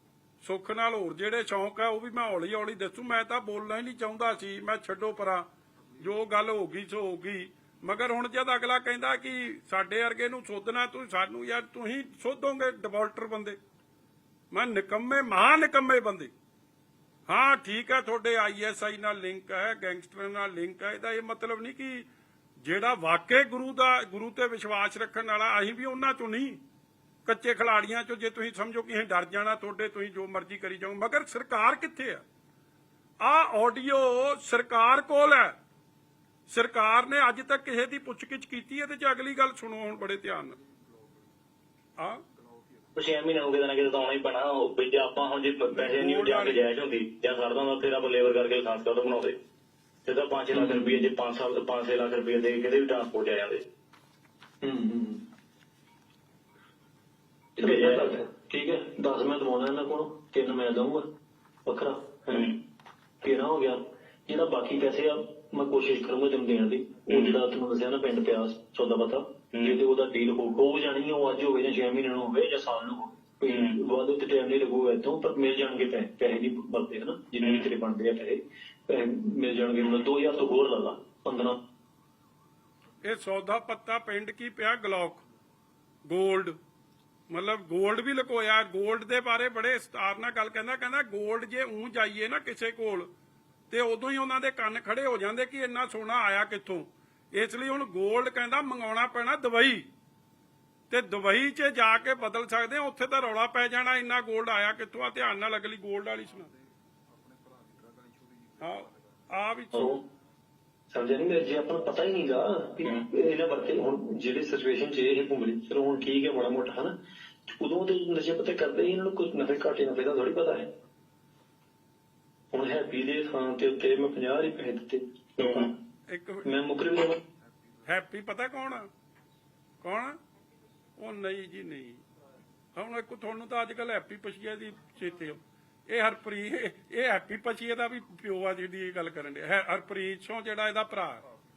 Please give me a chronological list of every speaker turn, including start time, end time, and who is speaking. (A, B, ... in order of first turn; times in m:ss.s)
0:00.4-0:05.5 A
0:06.0-0:13.6 A
0:14.5-0:16.3 A
0:17.3-0:22.1 A
0:22.6-0:26.6 A
0:27.2-0:32.2 A
0:33.2-0:35.6 A
0:36.5-0:40.6 A
0:43.0-0:49.4 B
0:45.7-0:46.6 A
0:50.0-0:53.6 B
0:50.5-0:51.0 C
0:54.6-0:55.2 C
0:57.6-0:58.1 B
0:57.6-1:01.0 C
1:01.6-1:02.5 C
1:03.2-1:21.6 C
1:07.1-1:07.4 B
1:13.5-1:13.8 B
1:17.4-1:17.7 B
1:23.0-1:25.2 A
1:26.1-1:26.6 A
1:27.3-1:33.1 A
1:33.7-1:39.8 A
1:40.9-1:46.5 A
1:48.6-1:49.9 A
1:49.7-1:50.0 C
1:50.9-1:56.9 C
1:57.5-2:00.7 C
2:02.5-2:05.8 C
2:05.4-2:05.7 B
2:06.1-2:06.5 A
2:06.4-2:07.2 C
2:07.9-2:08.9 A
2:09.8-2:10.2 A
2:11.0-2:12.0 A
2:12.8-2:21.2 A